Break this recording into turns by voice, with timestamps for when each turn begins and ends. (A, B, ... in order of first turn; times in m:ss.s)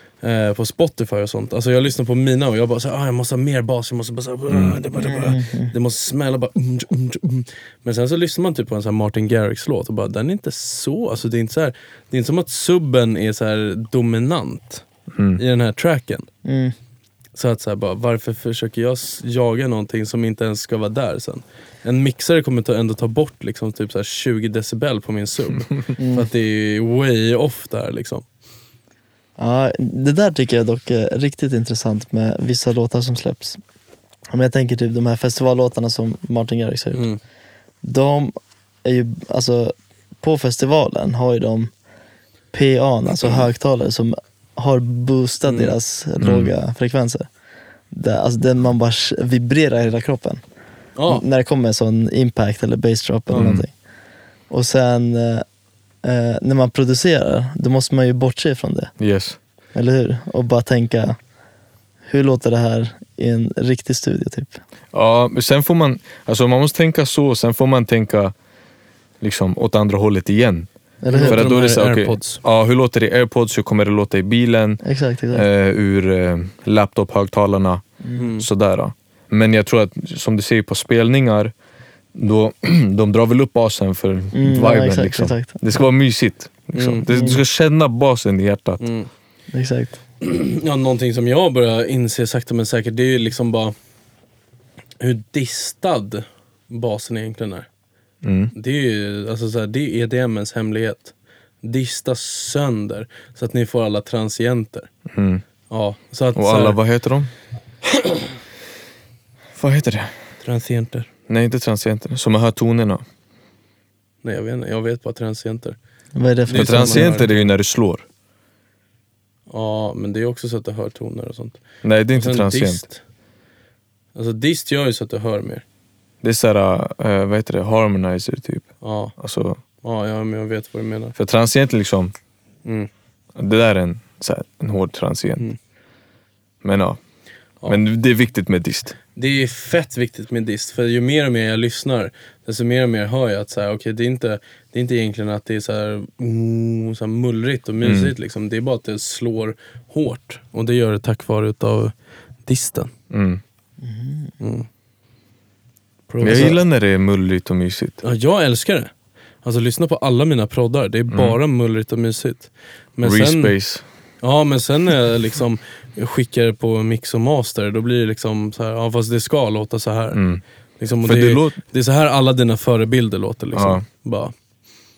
0:00.2-0:14.8 A
0:04.5-0:04.8 B
0:05.0-0:05.7 C
0:15.1-0:15.4 B
0:15.4-0:16.3 A
0:16.4-0:16.7 C
0:17.3-0:28.2 A
0:26.0-0:26.3 C
0:29.4-0:33.6 C
0:34.3-0:37.1 C
0:36.9-0:37.2 A
0:37.8-0:41.7 C
0:42.5-0:47.3 C
0:45.4-0:45.7 A
0:46.2-0:46.5 B
0:47.9-0:50.4 C
0:51.0-0:51.2 A
0:51.1-0:53.7 C
0:53.3-0:53.6 B
0:54.5-0:55.4 C
0:56.0-0:58.9 C
0:59.0-0:59.4 B
0:59.7-1:01.2 C
1:02.1-1:04.6 C
1:04.9-1:08.3 B
1:09.2-1:10.7 B
1:11.0-1:11.5 C
1:11.1-1:12.4 A
1:11.2-1:17.8 B
1:14.8-1:15.4 C
1:18.1-1:18.4 A
1:18.4-1:21.5 B
1:22.1-1:28.8 B
1:24.3-1:25.6 C
1:26.7-1:27.1 A
1:27.1-1:27.4 C
1:28.8-1:29.1 A
1:29.5-1:30.0 C
1:30.2-1:33.7 A
1:35.0-1:37.7 A
1:38.2-1:38.5 B
1:38.5-1:44.9 A
1:45.1-1:45.4 B
1:45.7-1:46.8 A
1:46.3-1:47.3 B
1:49.6-1:50.1 B
1:50.4-1:51.1 A
1:51.3-1:53.0 B
1:54.2-1:55.8 A
1:56.2-1:57.1 C
1:56.5-1:57.5 A
1:56.5-1:58.0 B
1:59.5-2:01.6 A
2:01.8-2:02.8 B
2:02.1-2:03.0 A
2:04.1-2:05.6 A
2:06.2-2:09.6 B
2:08.8-2:09.1 A
2:09.8-2:11.1 A
2:11.2-2:12.1 B
2:12.6-2:12.9 A
2:13.4-2:15.5 B
2:16.6-2:17.0 B
2:17.6-2:19.0 B
2:19.1-2:31.9 A
2:27.8-2:28.1 B
2:32.4-2:32.9 A
2:33.1-2:33.4 B
2:33.8-2:34.3 C
2:34.4-2:34.7 A
2:36.1-2:36.6 A
2:36.2-2:38.0 B
2:38.0-2:38.9 A
2:39.4-2:43.5 A
2:41.1-2:41.4 B
2:43.0-2:43.8 B
2:44.2-2:50.2 A
2:50.1-2:50.4 B
2:50.8-2:54.3 A
2:51.0-2:51.6 B
2:53.5-2:53.8 B